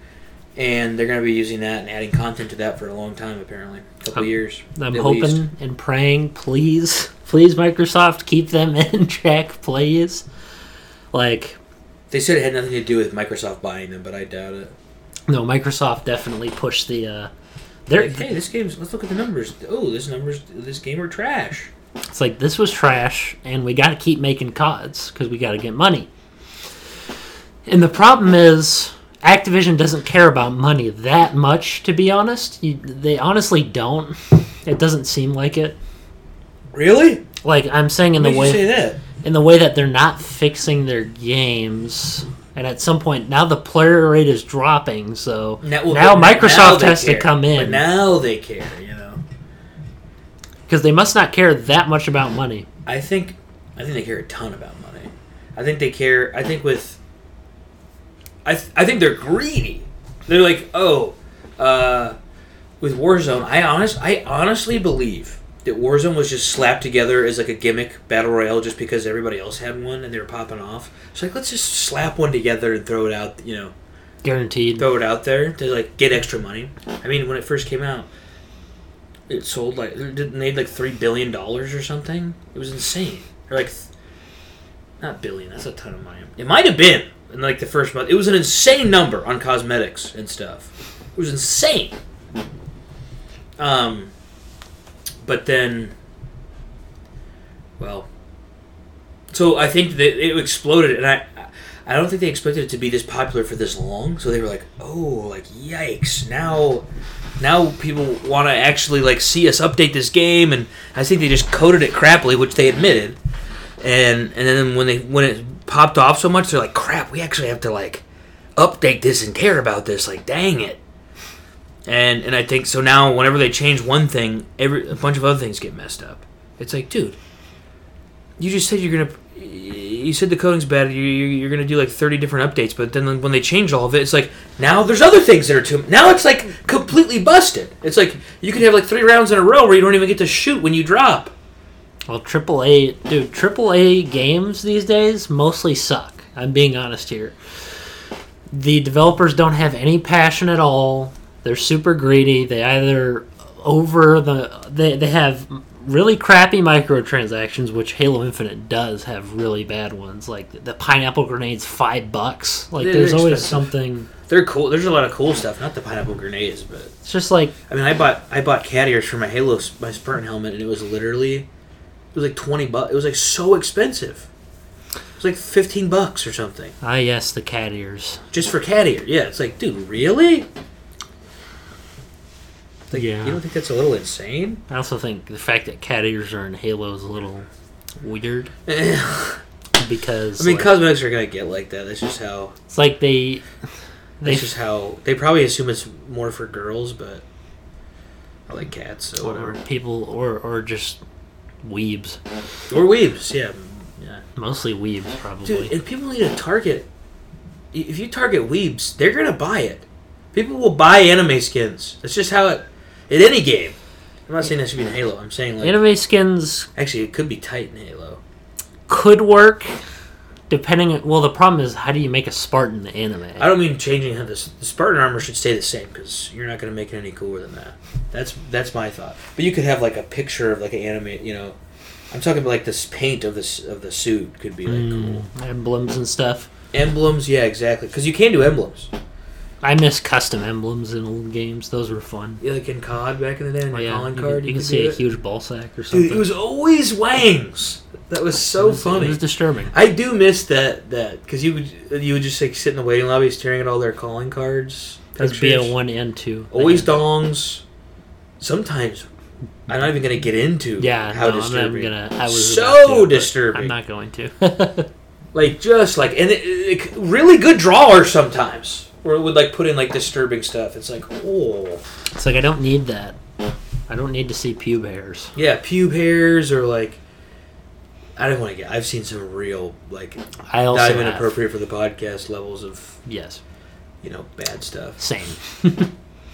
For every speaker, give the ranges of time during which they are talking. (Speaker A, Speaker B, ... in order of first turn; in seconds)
Speaker A: 0.6-5.4, 12.1-14.7, 17.9-21.7, 36.7-37.2, 38.1-39.0, 45.6-49.2, 52.9-57.0, 58.4-62.1, 62.8-73.7, 74.8-78.1, 79.3-83.9, 85.0-92.0, 93.6-94.1, 95.2-95.9, 97.8-98.1, 99.3-106.9, 107.4-113.2, 113.8-118.0, 118.5-120.8, 121.8-127.2, 128.4-141.3, 162.8-163.7, 164.3-166.9, 167.7-171.5, 172.1-174.3, 175.2-176.7, 178.3-180.5, 182.9-184.6, 188.7-189.4, 190.4-192.5, 194.2-197.2, 198.5-199.6, 202.7-204.2, 205.4-206.9, 207.7-213.8, 214.3-215.8, 216.8-218.2, 223.4-231.6, 232.1-235.2, 236.7-238.9, 242.4-245.0, 245.9-249.2, 249.7-255.7, 256.5-257.6, 258.4-259.1, 259.7-263.7, 265.3-271.8, 275.4-277.0, 278.2-283.0, 284.0-285.0
Speaker B: 4.1-10.2, 11.1-11.6, 15.3-17.3, 17.9-18.3, 22.1-26.1, 27.6-35.8, 37.4-47.8, 50.7-52.7, 74.2-74.9, 142.1-147.4, 148.5-164.1, 167.0-167.5, 176.8-178.2, 182.9-183.4, 184.7-187.5, 188.0-188.5, 189.8-190.7, 192.7-193.4, 194.2-194.5, 199.2-201.0, 201.6-202.2, 204.3-205.7, 215.6-216.7, 218.9-219.7, 220.5-223.5, 234.7-236.5, 239.6-242.4, 243.7-246.3, 248.6-249.7, 255.2-257.0, 260.8-264.9, 272.1-273.2, 273.9-275.3, 280.5-281.3, 283.1-283.4, 285.0-285.9